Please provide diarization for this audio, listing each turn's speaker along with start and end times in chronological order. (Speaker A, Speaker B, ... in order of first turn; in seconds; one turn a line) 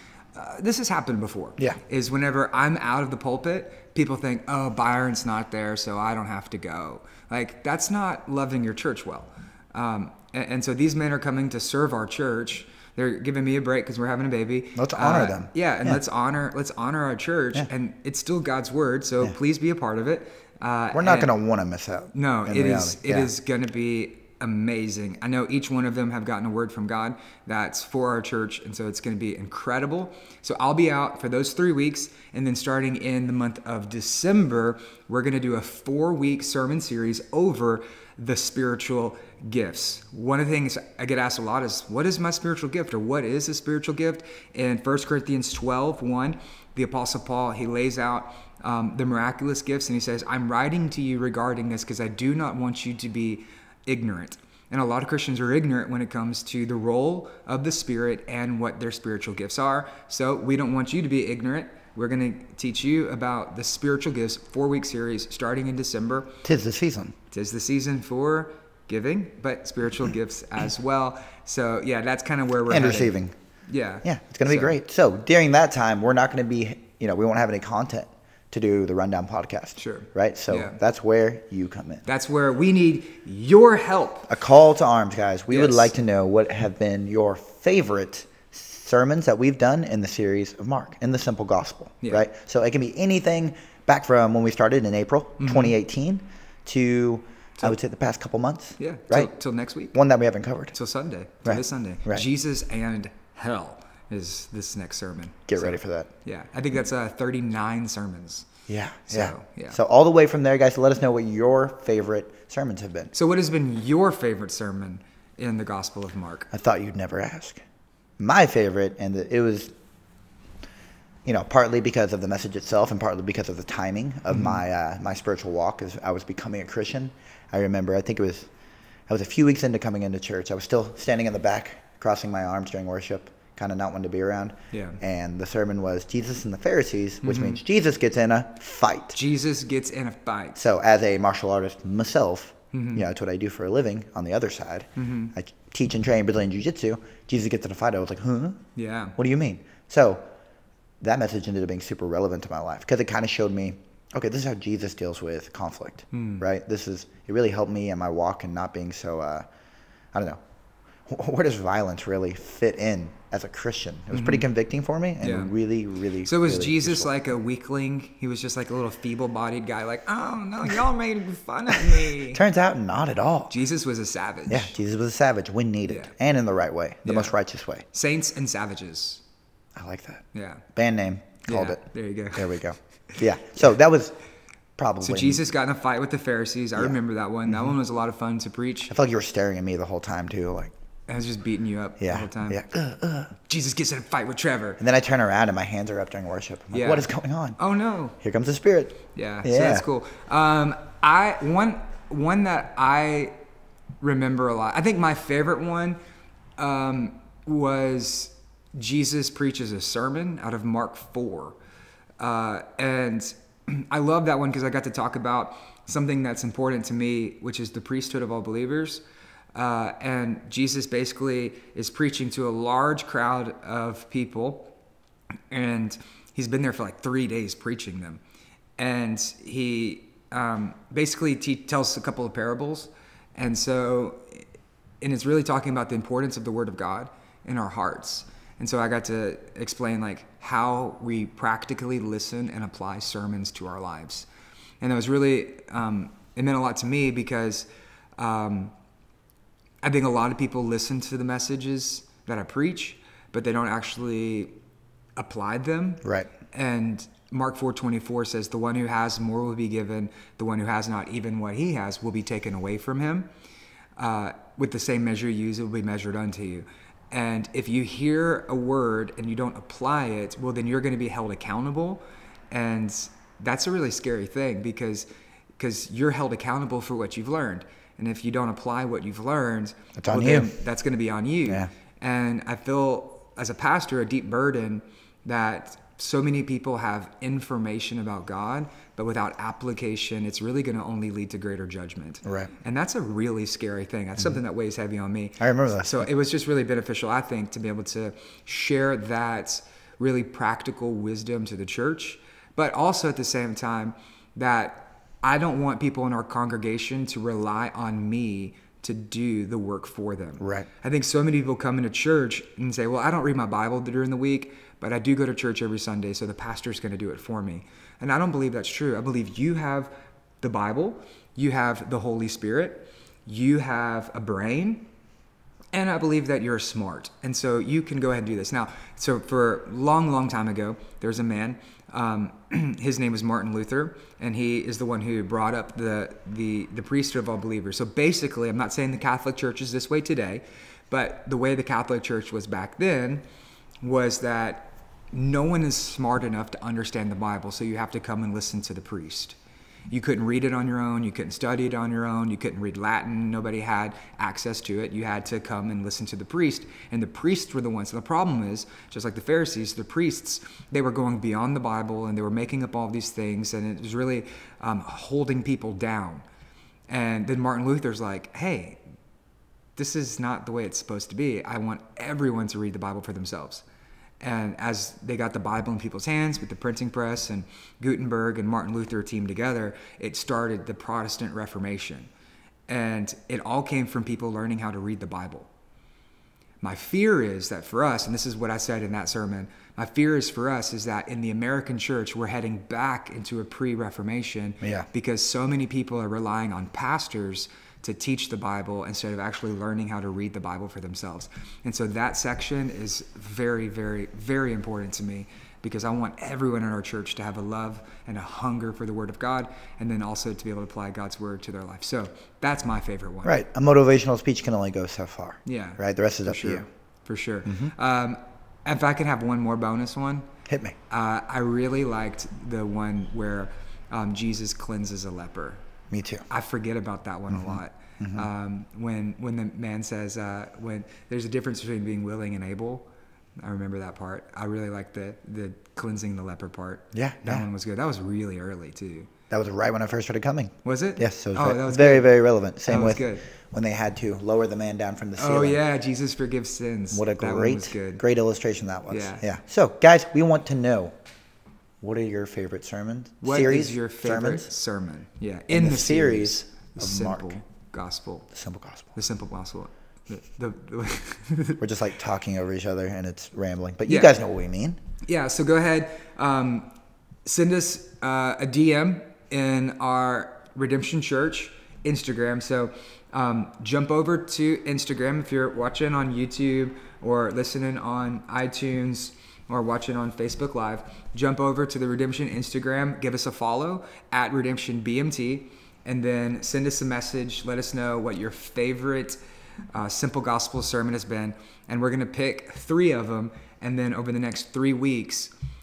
Speaker A: 0.3-21.3
Speaker B: 14.7-16.0
Speaker B: 20.9-23.3
Speaker A: 22.1-66.3
Speaker B: 66.4-67.1
Speaker A: 67.3-74.8
Speaker B: 72.7-73.3
Speaker B: 74.0-82.0
Speaker A: 79.8-80.8
Speaker A: 82.0-84.3
Speaker B: 84.3-99.3
Speaker A: 85.5-85.9
Speaker A: 95.4-95.8
Speaker A: 98.8-100.0
Speaker B: 99.9-100.7
Speaker A: 100.7-108.5
Speaker B: 101.4-102.2
Speaker B: 105.5-106.1
Speaker B: 108.7-113.1
Speaker A: 109.1-109.8
Speaker A: 113.1-116.5
Speaker B: 116.5-117.6
Speaker B: 118.2-119.7
Speaker B: 121.2-128.5
Speaker A: 124.3-124.6
Speaker B: 129.1-139.2
Speaker A: 134.7-135.0
Speaker A: 137.2-137.6
Speaker A: 139.1-140.6
Speaker B: 140.5-148.6
Speaker A: 142.7-143.0
Speaker A: 145.0-145.3
Speaker A: 148.8-149.1
Speaker B: 149.2-150.2
Speaker B: 151.0-159.5
Speaker A: 156.1-156.5
Speaker B: 160.1-160.4
Speaker B: 161.1-167.1
Speaker A: 164.1-164.5
Speaker A: 165.2-165.5
Speaker A: 166.2-172.4
Speaker B: 172.0-173.5
Speaker A: 173.5-174.7
Speaker B: 174.5-177.8
Speaker A: 175.9-176.1
Speaker A: 177.0-177.3
Speaker A: 177.9-179.2
Speaker B: 179.8-181.8
Speaker A: 180.3-180.6
Speaker A: 181.5-183.2
Speaker B: 182.3-184.1
Speaker B: 184.8-185.5
Speaker A: 185.0-188.9
Speaker B: 186.8-187.8
Speaker B: 188.9-190.7
Speaker A: 191.1-192.6
Speaker B: 192.0-193.3
Speaker A: 193.3-194.8
Speaker B: 194.8-197.6
Speaker A: 196.7-198.2
Speaker B: 198.2-199.8
Speaker A: 199.1-203.3
Speaker A: 204.0-206.0
Speaker A: 206.6-211.6
Speaker A: 212.2-219.0
Speaker A: 219.5-224.7
Speaker A: 225.5-228.2
Speaker A: 228.8-234.4
Speaker A: 235.0-244.3
Speaker A: 244.8-247.7
Speaker A: 248.2-248.7
Speaker A: 249.8-254.5
Speaker A: 255.2-263.3
Speaker B: 256.0-256.3
Speaker A: 264.0-275.1
Speaker A: 275.6-319.9
Speaker B: 280.0-280.5
Speaker B: 292.2-292.5
Speaker B: 295.4-296.1
Speaker B: 310.4-310.7
Speaker A: 320.4-324.9
Speaker A: 325.7-343.2
Speaker A: 343.8-349.4
Speaker A: 349.9-366.2
Speaker A: 366.9-368.8
Speaker A: 369.8-373.6
Speaker A: 374.2-382.1
Speaker A: 382.7-385.5
Speaker A: 386.6-413.4
Speaker B: 413.2-416.6
Speaker A: 415.4-420.3
Speaker B: 417.4-417.7
Speaker B: 420.5-420.8
Speaker A: 420.9-425.6
Speaker B: 425.9-426.2
Speaker A: 426.3-432.9
Speaker B: 427.3-428.3
Speaker A: 433.4-439.1
Speaker B: 436.9-437.5
Speaker B: 439.3-445.6
Speaker A: 440.6-443.3
Speaker A: 445.2-448.0
Speaker B: 446.9-450.9
Speaker A: 448.9-449.3
Speaker B: 451.8-454.5
Speaker A: 453.2-458.3
Speaker B: 455.5-457.4
Speaker B: 458.3-458.9
Speaker A: 458.9-461.6
Speaker B: 461.6-464.8
Speaker A: 463.9-464.1
Speaker A: 465.1-466.7
Speaker A: 467.2-489.2
Speaker A: 489.7-495.3